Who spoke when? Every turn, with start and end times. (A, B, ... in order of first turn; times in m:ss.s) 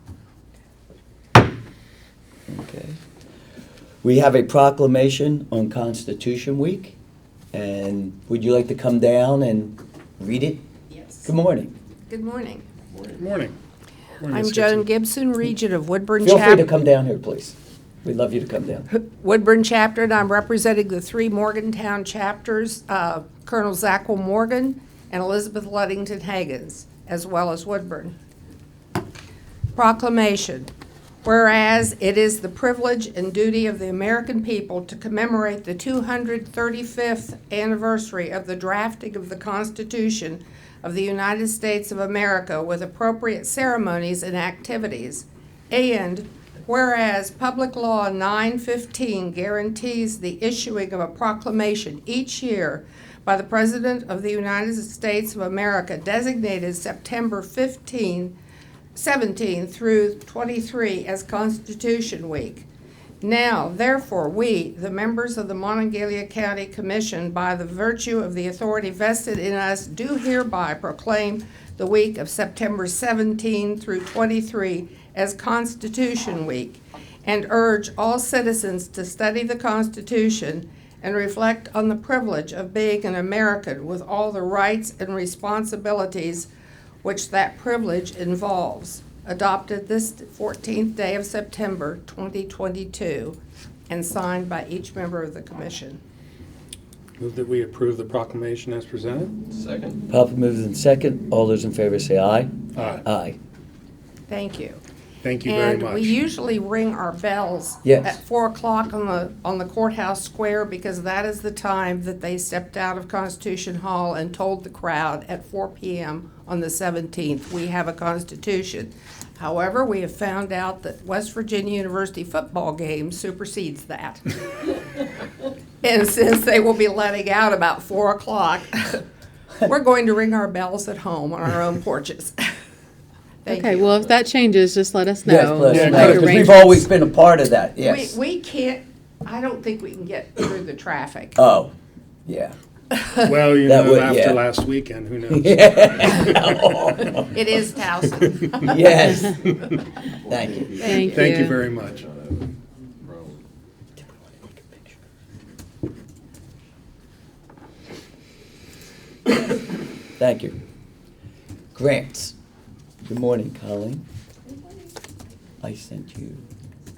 0:02.5-0:03.0 A
0:04.0-0:07.0 A
0:07.5-0:10.6 A
0:10.9-0:11.3 B
0:11.2-0:11.7 A
0:12.1-0:12.6 B
0:13.2-0:13.6 C
0:14.2-0:14.8 C
0:14.3-0:16.7 B
0:16.2-0:18.9 A
0:18.9-0:28.1 B
0:29.8-0:30.7 B
0:31.2-0:58.4 B
0:58.9-1:02.7 B
1:03.2-1:26.5 B
1:27.0-1:33.4 B
1:33.9-1:36.0 B
1:37.2-1:39.4 C
1:39.5-1:40.0 D
1:40.1-1:43.4 A
1:42.8-1:43.0 C
1:44.3-1:44.8 B
1:45.2-1:46.1 C
1:45.5-2:04.8 B
1:47.8-1:48.1 A
2:05.8-2:09.0 B
2:09.6-2:12.5 B
2:13.4-2:14.0 B
2:13.5-2:16.9 E
2:15.2-2:18.2 A
2:15.7-2:16.4 C
2:17.8-2:21.4 B
2:21.4-2:21.7 A
2:22.3-2:22.6 A
2:23.2-2:26.6 C
2:23.6-2:24.4 A
2:25.3-2:27.3 A
2:27.2-2:29.0 B
2:28.6-2:29.4 A
2:30.3-2:30.9 A
2:30.3-2:31.1 D
2:30.8-2:31.6 E
2:31.0-2:32.0 C
2:31.6-2:32.4 D
2:33.0-2:33.3 D
2:34.5-2:34.8 A
2:40.2-2:40.6 A
2:41.8-2:42.4 A
2:43.1-2:44.0 A
2:45.6-2:46.4 A